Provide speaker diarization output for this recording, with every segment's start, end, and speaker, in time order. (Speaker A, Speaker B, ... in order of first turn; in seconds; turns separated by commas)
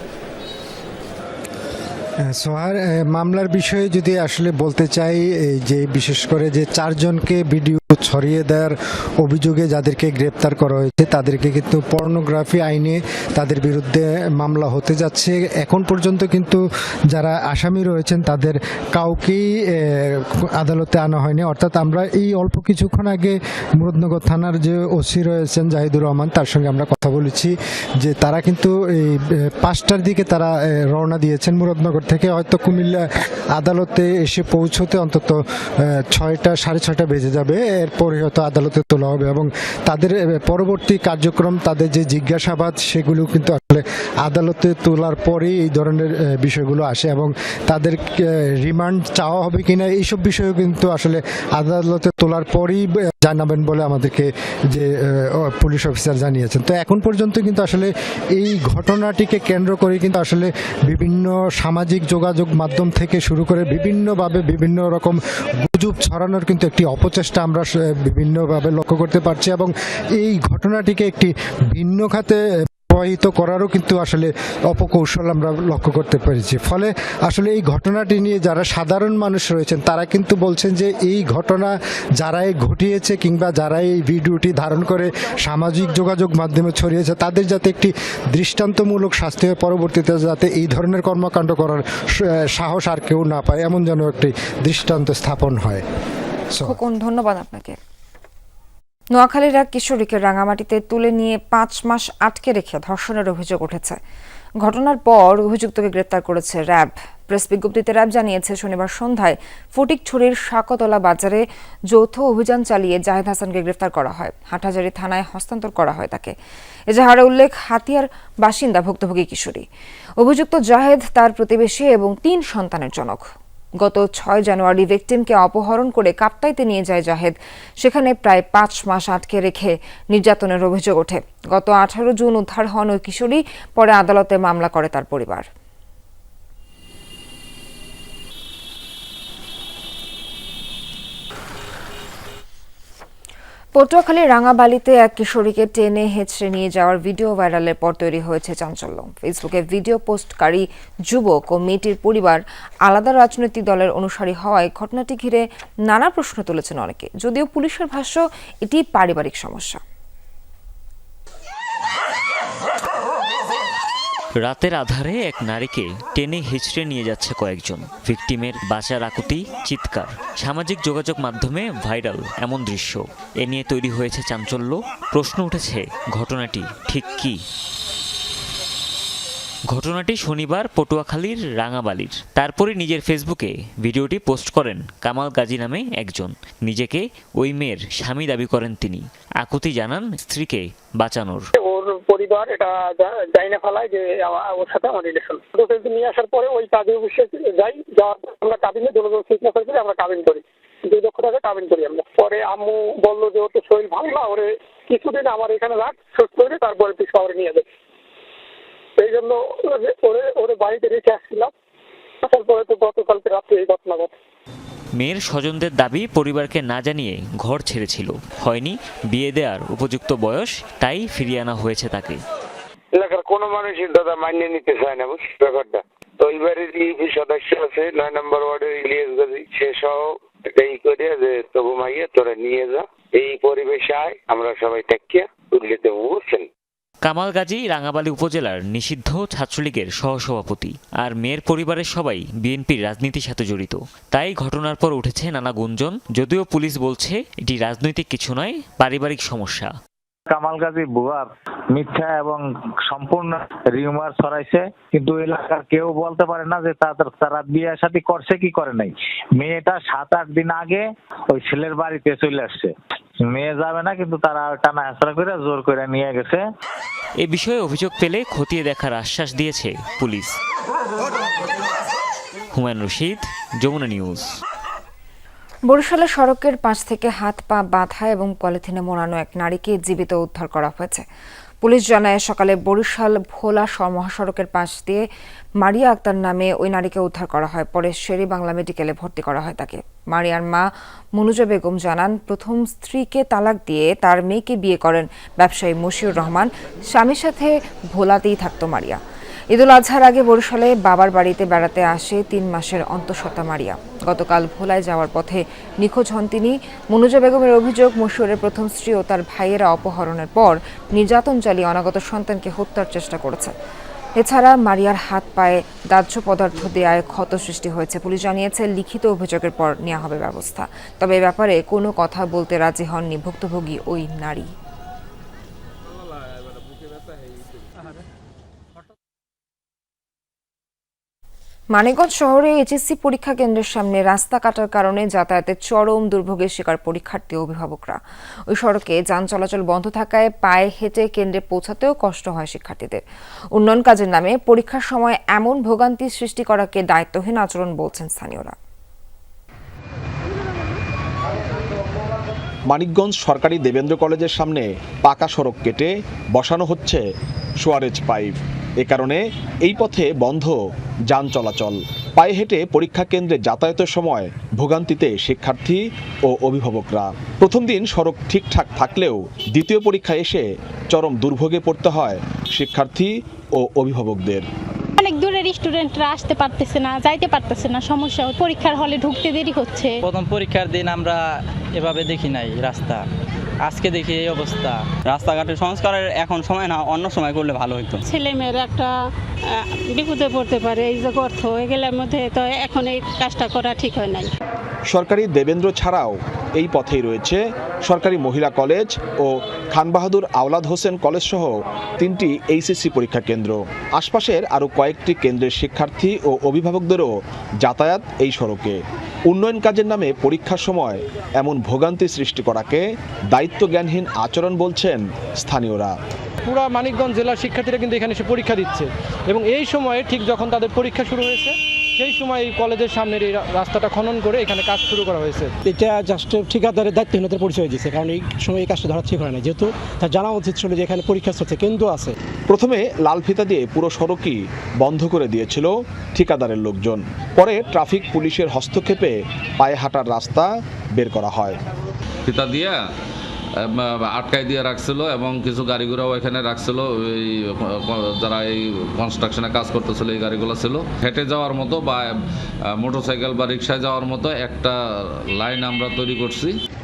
Speaker A: 2.3-16.6, Speaker A: 17.1-33.0, Speaker A: 33.6-35.4, Speaker A: 35.9-72.4, Speaker A: 72.9-95.8, Speaker B: 96.6-97.8, Speaker B: 99.1-104.0, Speaker B: 104.6-116.3, Speaker B: 116.9-119.7, Speaker B: 120.2-135.5, Speaker B: 143.8-159.8, Speaker C: 164.4-177.4, Speaker C: 179.7-191.5, Speaker D: 191.6-207.7, Speaker D: 209.0-211.5, Speaker D: 212.2-214.1, Speaker C: 215.0-222.2, Speaker E: 223.1-230.0, Speaker E: 230.6-236.4, Speaker C: 237.1-249.7, Speaker F: 250.3-266.4, Speaker C: 267.2-270.4, Speaker C: 272.5-274.3, Speaker B: 275.7-281.1, Speaker B: 281.6-285.1, Speaker B: 285.6-299.0, Speaker B: 299.5-313.5, Speaker B: 314.2-324.5, Speaker B: 331.7-343.0, Speaker B: 343.6-348.6, Speaker G: 352.7-357.0, Speaker G: 357.6-360.6, Speaker G: 361.1-374.5, Speaker H: 375.0-380.0, Speaker I: 380.0-381.2, Speaker I: 381.8-383.0, Speaker I: 383.7-388.0, Speaker H: 388.1-388.9, Speaker H: 389.9-394.3, Speaker G: 394.9-407.1, Speaker G: 407.6-415.9, Speaker J: 416.5-432.1, Speaker G: 432.5-441.6, Speaker K: 442.3-442.8, Speaker K: 443.6-452.1, Speaker K: 452.8-454.8, Speaker K: 455.4-456.6